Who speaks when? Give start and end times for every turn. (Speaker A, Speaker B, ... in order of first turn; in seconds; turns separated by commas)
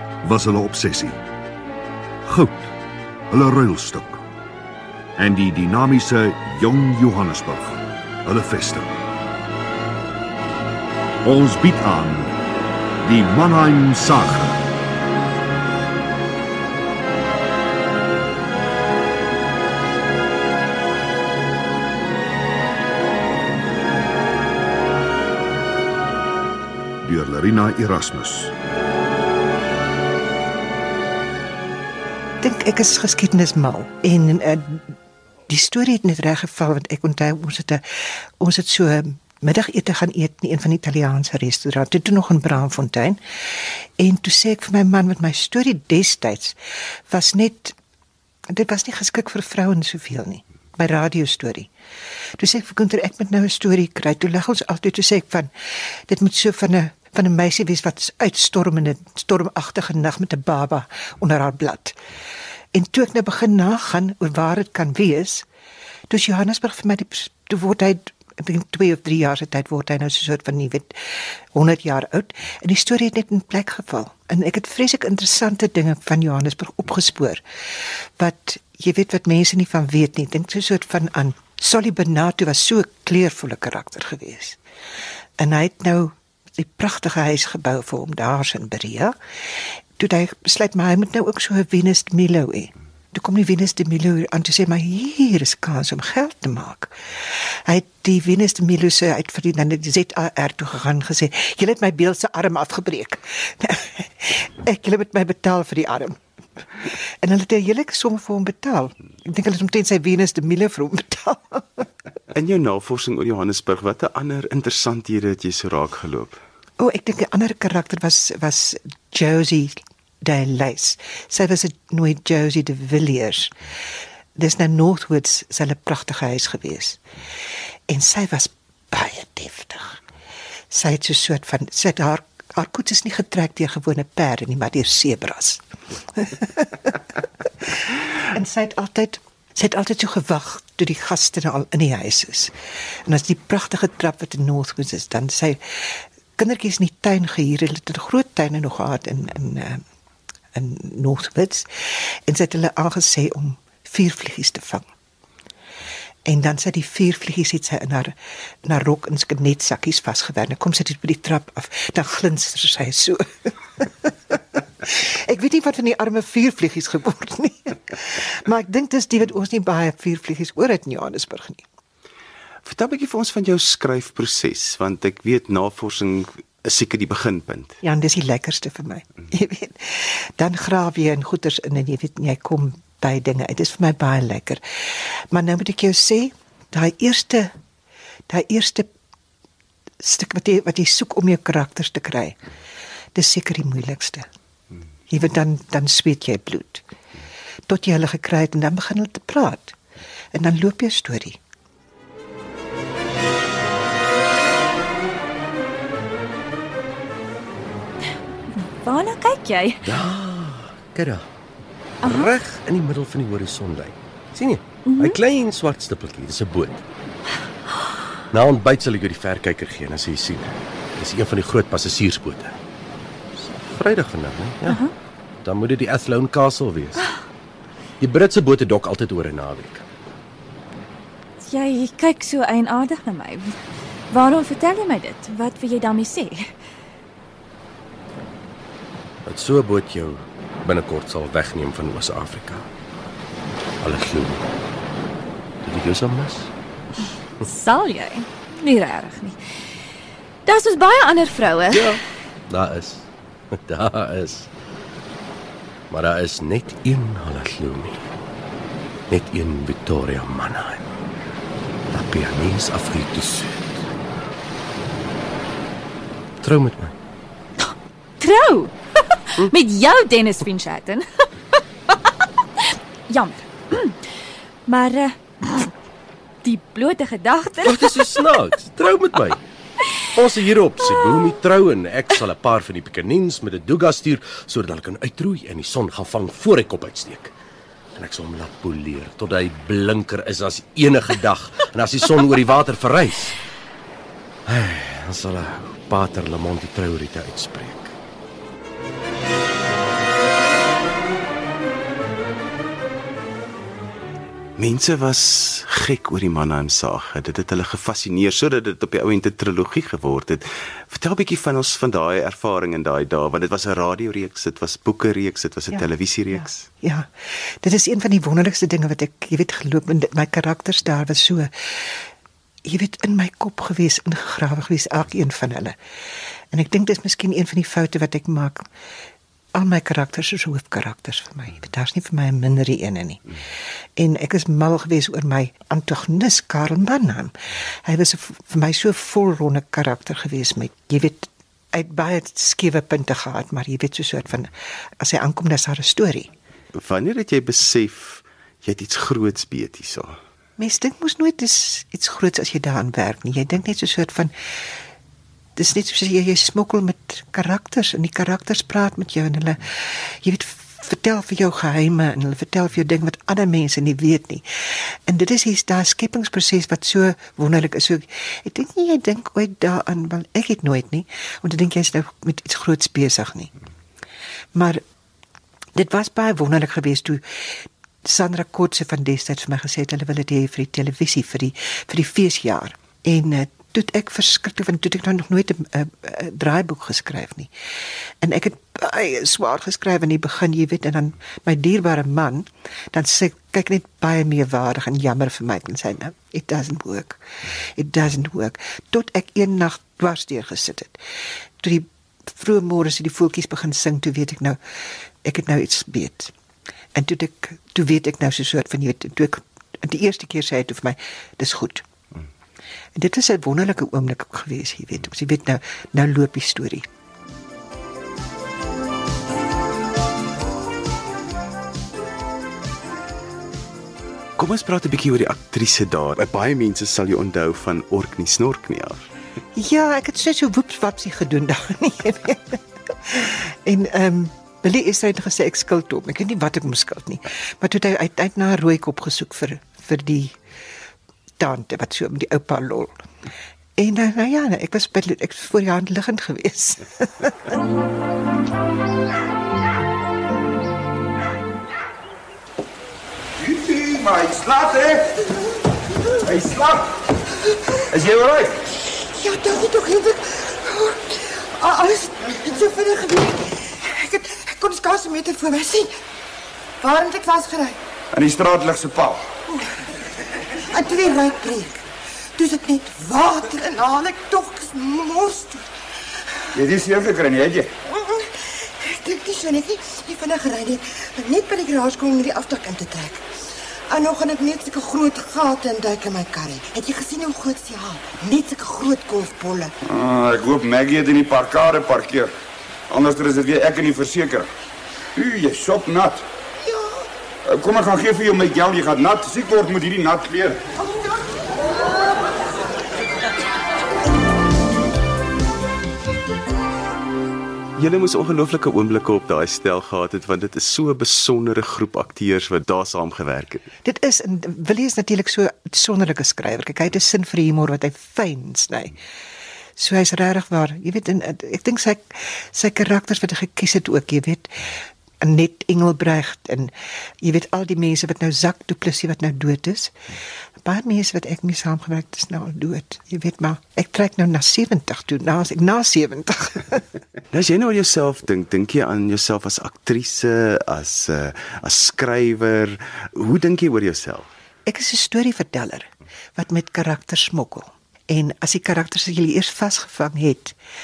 Speaker A: 0.2-1.2, Speaker A: 2.2-2.7, Speaker A: 3.3-4.2, Speaker A: 5.2-8.9, Speaker A: 11.2-12.3, Speaker A: 13.0-14.6, Speaker A: 27.0-28.5, Speaker B: 32.4-35.0, Speaker B: 35.5-47.7, Speaker B: 48.5-51.7, Speaker B: 52.4-62.0, Speaker B: 62.7-65.5, Speaker B: 66.1-84.6, Speaker B: 85.4-111.9, Speaker C: 112.3-116.4, Speaker B: 116.8-123.5, Speaker B: 124.4-127.0, Speaker B: 127.9-130.0, Speaker B: 130.7-135.6, Speaker B: 136.1-142.5, Speaker B: 143.1-149.8, Speaker B: 150.5-154.8, Speaker B: 156.2-171.6, Speaker C: 172.6-177.8, Speaker B: 177.8-187.5, Speaker B: 188.3-188.9, Speaker B: 190.0-192.4, Speaker B: 193.1-194.3, Speaker B: 195.1-196.8, Speaker B: 197.7-199.8, Speaker B: 200.3-201.4, Speaker D: 208.5-209.8, Speaker E: 209.8-211.3, Speaker D: 212.0-212.3, Speaker E: 212.0-216.8, Speaker D: 214.8-215.2, Speaker E: 218.3-222.6, Speaker E: 223.6-224.8, Speaker D: 224.7-224.9, Speaker E: 225.4-227.0, Speaker E: 228.0-229.8, Speaker D: 231.4-233.6, Speaker D: 234.1-236.4, Speaker E: 239.2-242.7, Speaker E: 243.8-244.4, Speaker E: 245.6-246.5, Speaker D: 247.4-249.6, Speaker D: 250.4-251.9, Speaker E: 251.7-254.5, Speaker E: 255.9-258.1, Speaker E: 259.1-260.8, Speaker E: 261.9-263.8, Speaker E: 266.4-266.9, Speaker D: 267.6-274.1, Speaker D: 274.6-275.7, Speaker D: 276.4-278.0, Speaker E: 277.6-279.4, Speaker E: 280.0-287.3, Speaker E: 287.9-293.3, Speaker E: 294.5-297.9, Speaker C: 304.6-316.7, Speaker B: 316.8-322.1, Speaker B: 322.6-325.8, Speaker B: 326.5-328.7, Speaker B: 329.5-333.4, Speaker B: 334.0-346.3, Speaker C: 346.7-350.2, Speaker B: 350.6-354.3, Speaker B: 355.6-373.5, Speaker B: 374.5-374.8, Speaker B: 375.8-387.5, Speaker B: 388.2-401.0, Speaker B: 401.6-406.3, Speaker B: 406.9-411.8, Speaker B: 412.9-416.9, Speaker C: 424.4-429.1, Speaker B: 429.5-440.4, Speaker B: 441.4-443.0, Speaker B: 443.8-447.5, Speaker F: 453.4-455.1, Speaker G: 455.1-456.2, Speaker F: 456.2-456.9, Speaker G: 457.4-457.8, Speaker F: 457.9-458.6, Speaker G: 458.7-465.9, Speaker G: 466.8-467.8, Speaker F: 468.1-469.2, Speaker G: 469.5-469.8, Speaker G: 470.6-475.6, Speaker F: 476.5-477.8, Speaker G: 477.8-483.3, Speaker G: 483.9-489.7, Speaker F: 489.8-492.3, Speaker F: 492.9-494.5, Speaker F: 495.1-496.2, Speaker G: 496.6-497.1, Speaker F: 497.4-500.6, Speaker G: 500.8-501.9, Speaker C: 507.8-513.7, Speaker B: 513.8-519.0, Speaker B: 519.8-529.9, Speaker B: 530.6-536.8, Speaker C: 537.3-544.3, Speaker B: 544.6-550.5